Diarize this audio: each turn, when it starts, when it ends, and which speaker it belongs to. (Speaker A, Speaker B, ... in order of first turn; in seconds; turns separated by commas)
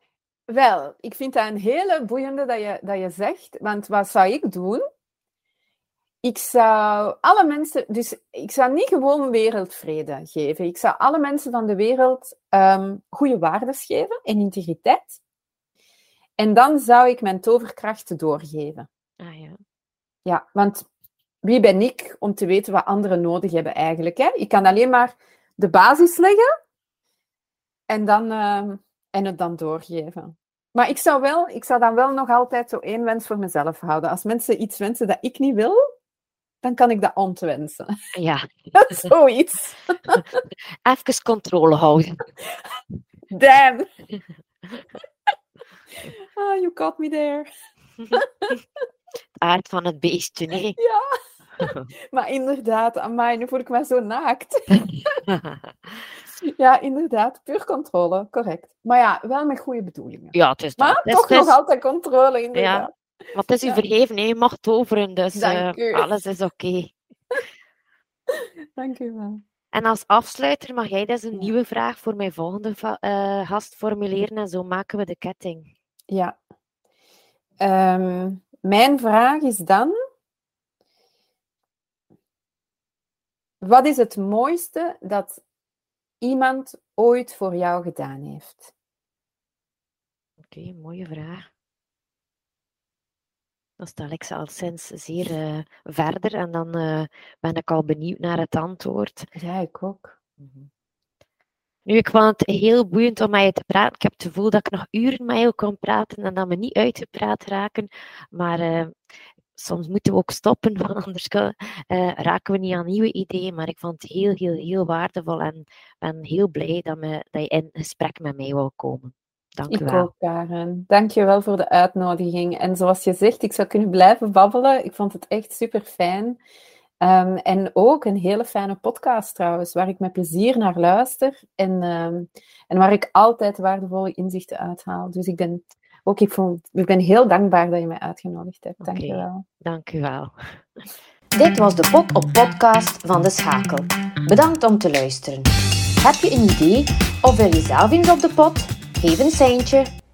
Speaker A: 0.5-4.8, Speaker A: 6.2-15.2, Speaker A: 16.4-18.9, Speaker B: 19.2-19.6, Speaker A: 20.2-20.9, Speaker A: 21.4-26.4, Speaker A: 27.9-35.8, Speaker A: 36.6-37.9, Speaker B: 38.1-39.1, Speaker A: 38.8-40.2, Speaker B: 40.9-42.3, Speaker A: 43.3-43.9, Speaker A: 46.1-47.5, Speaker A: 48.1-48.5, Speaker B: 49.4-50.8, Speaker A: 50.8-51.1, Speaker B: 51.6-51.9, Speaker A: 51.6-55.2, Speaker B: 55.3-55.6, Speaker A: 56.4-62.9, Speaker B: 60.3-61.5, Speaker B: 62.5-67.0, Speaker A: 65.4-66.1, Speaker A: 68.3-69.4, Speaker B: 69.7-75.7, Speaker A: 76.1-76.4, Speaker A: 77.6-80.0, Speaker A: 83.6-85.4, Speaker A: 86.2-88.7, Speaker B: 90.5-91.5, Speaker B: 93.8-99.3, Speaker A: 99.4-100.2, Speaker B: 100.4-100.7, Speaker B: 101.9-108.9, Speaker B: 109.6-120.1, Speaker A: 119.7-126.4, Speaker A: 127.0-139.4, Speaker B: 138.8-140.3, Speaker C: 141.3-149.9